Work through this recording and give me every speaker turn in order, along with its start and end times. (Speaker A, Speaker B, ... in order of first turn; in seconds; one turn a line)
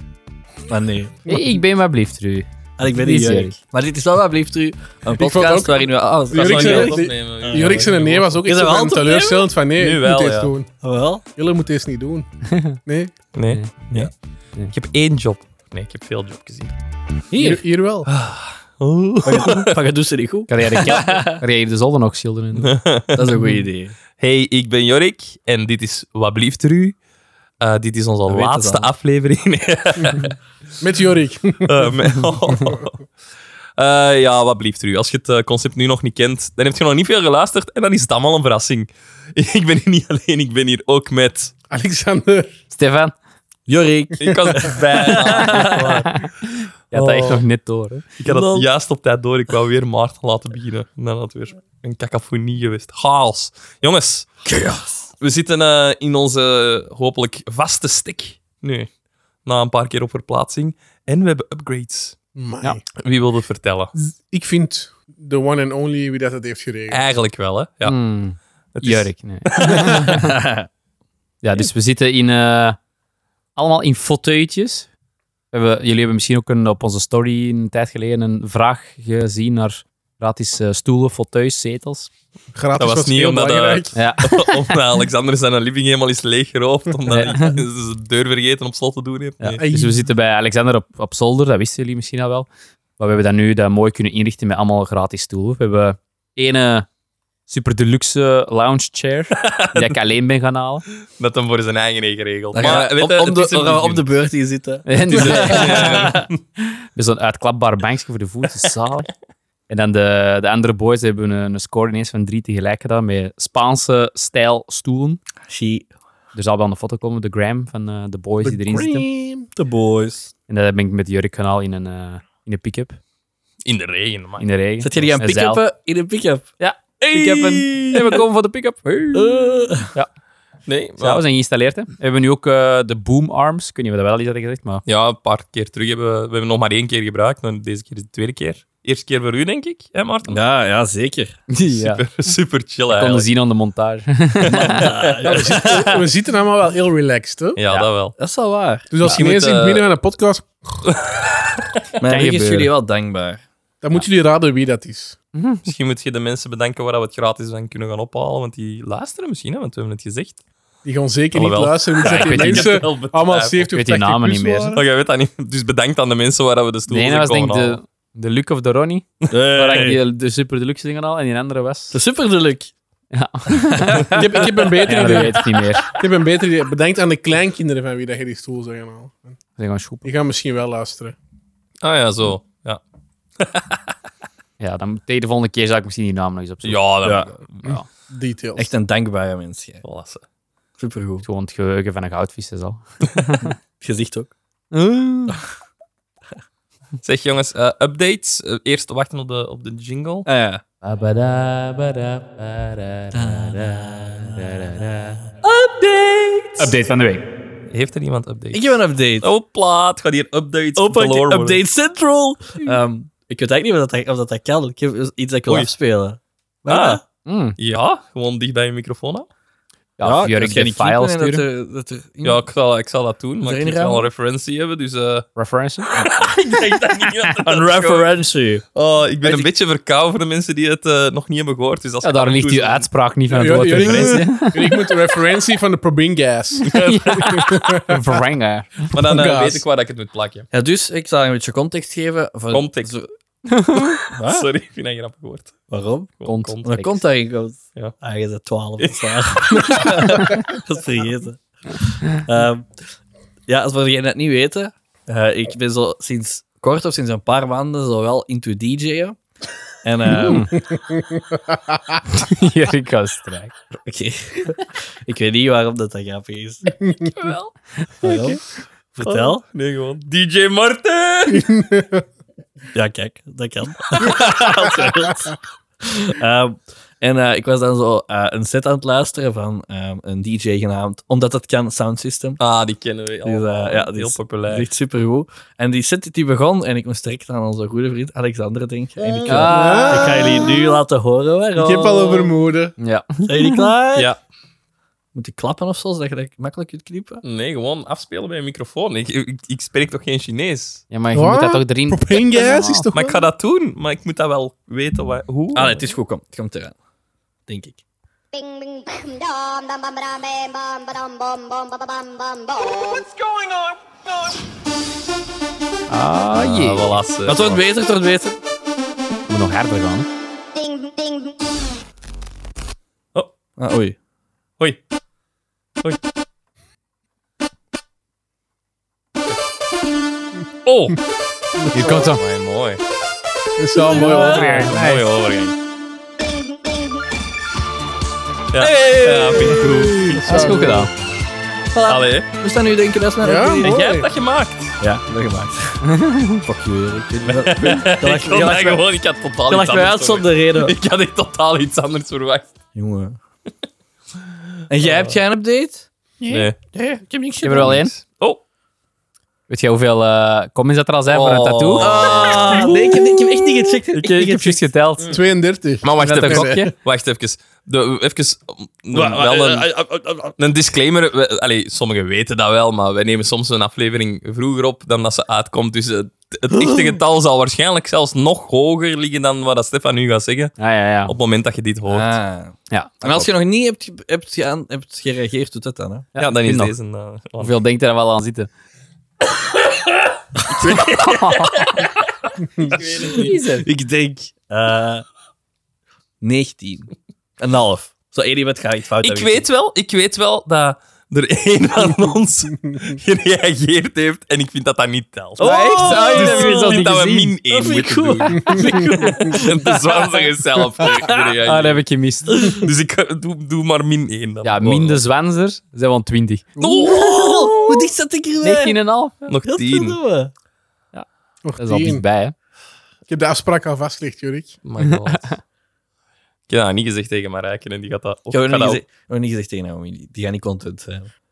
Speaker A: 0.7-1.2
Speaker B: 1.3-2.5
Speaker A: 2.8-7.9
Speaker B: 3.0-3.6
Speaker C: 5.2-10.7
Speaker D: 6.3-8.3
Speaker A: 8.4-9.4
Speaker D: 9.7-10.5
Speaker A: 10.8-11.2
Speaker C: 11.3-12.3
Speaker B: 12.5-12.8
Speaker C: 12.8-13.1
Speaker D: 13.3-14.1
Speaker D: 14.7-16.8
Speaker A: 17.3-17.6
Speaker C: 17.3-18.1
Speaker D: 18.1-19.7
Speaker A: 19.2-21.4
Speaker B: 20.5-22.7
Speaker D: 22.6-23.1
Speaker A: 23.1-23.9
Speaker B: 23.3-23.6
Speaker D: 24.2-27.0
Speaker D: 27.6-30.4
Speaker A: 28.3-28.9
Speaker C: 30.8-31.9
Speaker D: 31.6-33.0
Speaker D: 33.8-41.5
Speaker C: 41.7-42.5
Speaker B: 42.7-43.1
Speaker A: 43.7-46.0
Speaker D: 44.2-46.3
Speaker C: 44.2-44.7
Speaker B: 45.5-46.3
Speaker B: 46.9-48.1
Speaker D: 48.2-54.5
Speaker A: 48.2-48.7
Speaker A: 54.5-55.1
Speaker D: 55.2-58.9
Speaker D: 59.5-62.2
Speaker C: 62.4-62.8
Speaker D: 63.0-63.9
Speaker C: 64.0-67.0
Speaker D: 66.9-68.0
Speaker B: 67.8-70.4
Speaker D: 68.7-70.1
Speaker A: 69.7-70.7
Speaker B: 71.4-72.8
Speaker B: 73.5-74.9
Speaker B: 75.5-82.1
Speaker C: 82.5-84.0
Speaker D: 82.8-89.5
Speaker B: 83.9-84.8
Speaker B: 87.1-87.6
Speaker B: 89.4-96.9
Speaker C: 89.6-90.0
Speaker B: 97.5-100.8
Speaker D: 99.4-100.0
Speaker D: 101.1-104.1
Speaker A: 102.5-106.3
Speaker B: 104.8-106.2
Speaker D: 105.1-106.3
Speaker B: 106.9-109.1
Speaker B: 109.7-115.2
Speaker A: 115.5-115.9
Speaker B: 116.3-119.0
Speaker C: 118.4-119.5
Speaker A: 119.5-120.3
Speaker B: 120.5-123.0
Speaker D: 123.6-124.4
Speaker B: 124.4-125.6
Speaker A: 124.8-128.2
Speaker B: 126.6-130.1
Speaker A: 129.1-129.9
Speaker D: 130.7-131.2
Speaker B: 131.0-134.8
Speaker D: 134.8-140.4
Speaker A: 140.3-141.4
Speaker B: 141.5-142.0
Speaker D: 141.7-143.3
Speaker B: 142.9-144.8
Speaker D: 144.5-145.6
Speaker A: 144.6-145.9
Speaker C: 145.2-147.6
Speaker D: 147.6-148.2
Speaker A: 148.2-148.9
Speaker C: 148.9-150.8
Speaker D: 149.0-149.8
Speaker D: 150.9-151.6
Speaker A: 152.0-153.4
Speaker B: 152.1-152.7
Speaker C: 153.8-155.2
Speaker B: 155.3-155.6
Speaker D: 155.6-160.4
Speaker C: 160.8-164.8
Speaker D: 161.3-163.7
Speaker B: 162.0-162.8
Speaker B: 163.7-164.8
Speaker D: 164.7-167.8
Speaker B: 166.9-172.0
Speaker A: 169.3-170.0
Speaker A: 171.9-172.7
Speaker B: 173.1-175.9
Speaker C: 174.1-179.4
Speaker D: 175.0-175.5
Speaker B: 179.6-180.1
Speaker C: 180.0-181.2
Speaker D: 181.8-182.8
Speaker D: 183.4-183.8
Speaker B: 184.6-186.8
Speaker D: 186.6-187.7
Speaker A: 187.0-187.3
Speaker C: 187.6-188.7
Speaker A: 188.6-189.8
Speaker D: 189.8-190.2
Speaker A: 190.8-191.2
Speaker B: 191.2-193.5
Speaker A: 193.8-194.3
Speaker B: 194.7-195.4
Speaker D: 197.0-200.3
Speaker A: 200.2-200.6
Speaker B: 200.8-205.2
Speaker A: 203.1-204.5
Speaker D: 205.5-206.1
Speaker A: 206.0-206.5
Speaker B: 206.6-207.2
Speaker D: 207.7-211.6
Speaker A: 208.5-209.3
Speaker A: 210.8-217.0
Speaker D: 215.4-215.7
Speaker D: 216.7-217.0
Speaker B: 217.2-217.6
Speaker D: 217.6-219.3
Speaker B: 220.0-221.4
Speaker A: 220.0-222.4
Speaker D: 222.2-225.3
Speaker A: 223.4-224.1
Speaker B: 225.3-225.9
Speaker D: 225.9-228.1
Speaker A: 225.9-226.3
Speaker A: 227.4-228.6
Speaker D: 228.8-232.8
Speaker A: 229.2-229.5
Speaker B: 232.0-234.8
Speaker C: 233.3-238.2
Speaker A: 233.8-234.2
Speaker B: 236.6-238.9
Speaker D: 236.7-237.5
Speaker D: 238.9-240.5
Speaker C: 238.9-239.6
Speaker A: 240.5-243.1
Speaker D: 242.5-243.0
Speaker B: 243.5-244.0
Speaker A: 244.1-244.4
Speaker D: 244.2-246.7
Speaker A: 245.7-246.1
Speaker B: 246.2-247.0
Speaker A: 246.6-252.7
Speaker D: 248.8-250.2
Speaker A: 253.5-259.2
Speaker A: 259.8-260.6
Speaker B: 260.2-260.5
Speaker C: 260.5-262.0
Speaker B: 262.1-263.5
Speaker A: 263.8-266.7
Speaker C: 266.8-267.3
Speaker B: 267.2-268.4
Speaker A: 268.0-268.4
Speaker A: 268.9-269.4
Speaker D: 269.0-271.5
Speaker C: 271.3-272.1
Speaker A: 272.7-282.4
Speaker D: 274.0-274.3
Speaker D: 282.4-284.7
Speaker A: 283.2-292.3
Speaker C: 289.1-290.8
Speaker B: 289.2-290.2
Speaker C: 291.6-292.8
Speaker B: 292.8-293.6
Speaker A: 293.2-294.1
Speaker D: 293.9-294.2
Speaker A: 295.1-297.2
Speaker D: 297.2-300.8
Speaker B: 300.9-302.9
Speaker C: 301.1-303.3
Speaker D: 302.9-305.9
Speaker A: 305.6-306.8
Speaker A: 307.5-307.8
Speaker E: 308.3-313.0
Speaker B: 315.9-316.9
Speaker D: 316.3-317.6
Speaker A: 317.3-318.4
Speaker B: 319.3-320.1
Speaker E: 320.6-321.4
Speaker A: 323.6-323.9
Speaker D: 330.6-331.0
Speaker C: 331.6-332.1
Speaker D: 331.7-332.8
Speaker B: 331.7-332.2
Speaker C: 333.6-335.0
Speaker D: 333.9-335.5
Speaker B: 333.9-334.8
Speaker E: 336.3-337.0
Speaker D: 338.5-340.6
Speaker A: 338.6-340.9
Speaker B: 340.2-340.9
Speaker C: 340.3-340.7
Speaker A: 341.7-343.8
Speaker D: 341.9-342.3
Speaker C: 343.2-344.1
Speaker D: 343.6-344.7
Speaker A: 344.8-348.8
Speaker B: 345.8-346.4
Speaker D: 347.2-352.5
Speaker A: 349.5-350.7
Speaker A: 352.8-353.2
Speaker A: 354.7-357.8
Speaker D: 354.8-355.1
Speaker D: 356.3-356.6
Speaker B: 357.4-357.9
Speaker D: 357.6-358.4
Speaker B: 359.5-362.2
Speaker D: 361.1-363.1
Speaker A: 361.8-364.6
Speaker B: 363.9-365.2
Speaker C: 365.1-366.7
Speaker D: 365.8-369.7
Speaker B: 366.0-366.7
Speaker A: 368.9-370.4
Speaker D: 370.4-382.1
Speaker A: 376.6-376.8
Speaker B: 380.6-381.1
Speaker A: 381.9-386.1
Speaker B: 382.7-383.3
Speaker B: 386.1-386.7
Speaker D: 386.2-387.6
Speaker B: 387.4-388.5
Speaker A: 390.4-391.0
Speaker D: 390.6-391.9
Speaker B: 390.6-391.7
Speaker A: 392.6-395.1
Speaker D: 392.7-393.3
Speaker B: 392.9-393.6
Speaker A: 396.2-399.4
Speaker D: 399.0-411.8
Speaker C: 402.6-403.0
Speaker A: 405.4-406.8
Speaker B: 405.4-407.3
Speaker A: 407.5-410.3
Speaker C: 408.4-408.8
Speaker A: 410.8-411.4
Speaker B: 411.4-412.6
Speaker A: 412.3-412.7
Speaker D: 412.5-415.0
Speaker B: 414.4-416.4
Speaker C: 416.6-416.9
Speaker D: 416.6-417.9
Speaker A: 416.8-418.8
Speaker B: 418.4-419.3
Speaker D: 419.3-420.0
Speaker A: 419.4-420.3
Speaker C: 421.4-422.0
Speaker B: 421.6-422.3
Speaker C: 423.1-424.6
Speaker D: 424.6-425.3
Speaker B: 424.8-425.4
Speaker D: 426.5-428.8
Speaker A: 428.3-431.1